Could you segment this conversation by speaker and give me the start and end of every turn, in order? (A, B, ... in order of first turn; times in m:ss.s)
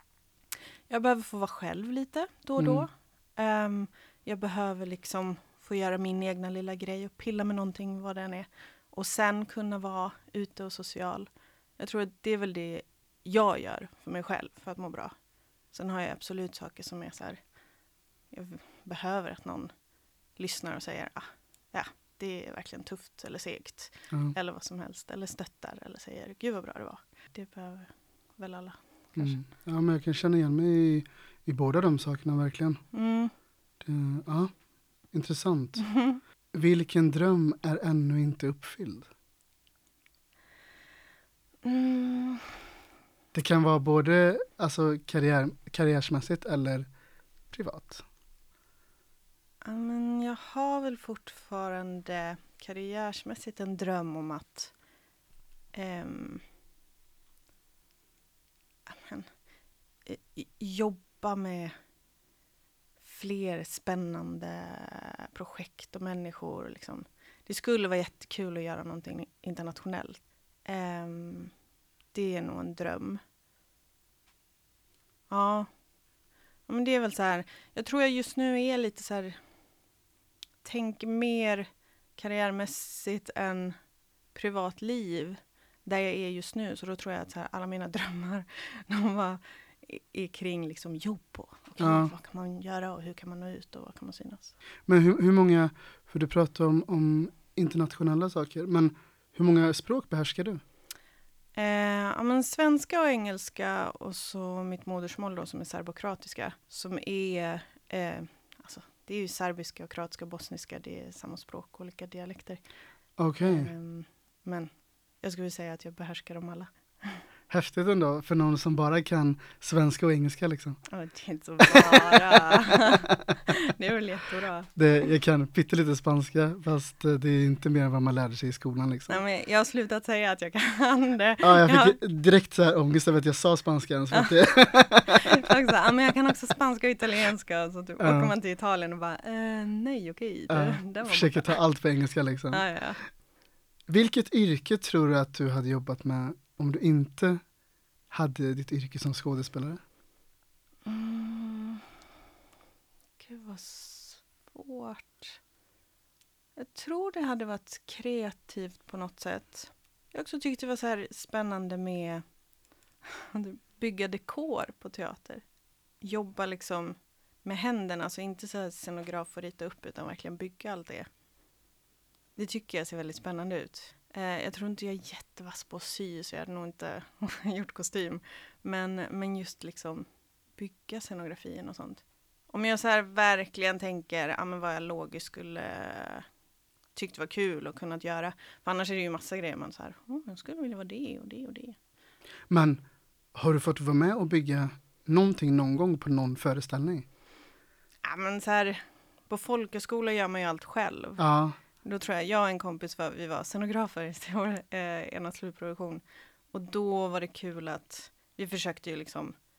0:00.9-0:15.1 A
0:02.6-0:02.8 B
0:15.7-0:17.4 A
0:18.3-0:19.7 A
0:20.4-0:29.4 A
0:29.2-0:32.8 B
0:32.9-0:33.3 A
0:33.8-0:34.5 B
0:35.1-0:35.9 B
0:35.8-0:36.2 A
0:36.5-0:39.1 B
0:41.6-0:42.5 A
0:43.3-0:46.9 B
0:47.5-0:48.0 B
0:49.6-0:54.7 A
0:55.7-0:56.4 A
0:58.9-0:59.3 A
1:00.1-1:01.8 A
1:03.0-1:11.5 A
1:12.1-1:13.2 A
1:15.3-1:15.7 A
1:16.7-1:19.4 A
1:20.6-1:23.8 A
1:24.3-1:34.6 A
1:31.8-1:32.1 B
1:34.9-1:40.6 B
1:41.6-1:52.6 A
1:53.2-1:53.7 B
1:53.4-1:57.2 A
1:57.5-2:00.8 B
2:00.9-2:04.8 A
2:01.6-2:02.8 B
2:04.8-2:09.2 B
2:09.1-2:12.0 A
2:11.4-2:15.4 B
2:15.1-2:21.6 A
2:18.0-2:18.3 B
2:20.5-2:22.6 B
2:22.5-2:23.0 A
2:23.9-2:27.4 B
2:28.1-2:29.8 B
2:30.9-2:31.8 A
2:33.2-2:35.4 A
2:36.6-2:42.2 A
2:43.1-2:45.4 A
2:46.0-2:51.1 A
2:52.4-3:00.1 A
3:00.6-3:06.3 A
3:07.0-3:11.8 A
3:12.5-3:12.8 B
3:13.3-3:17.1 B
3:18.0-3:21.2 A
3:21.2-3:21.6 B
3:21.8-3:29.3 A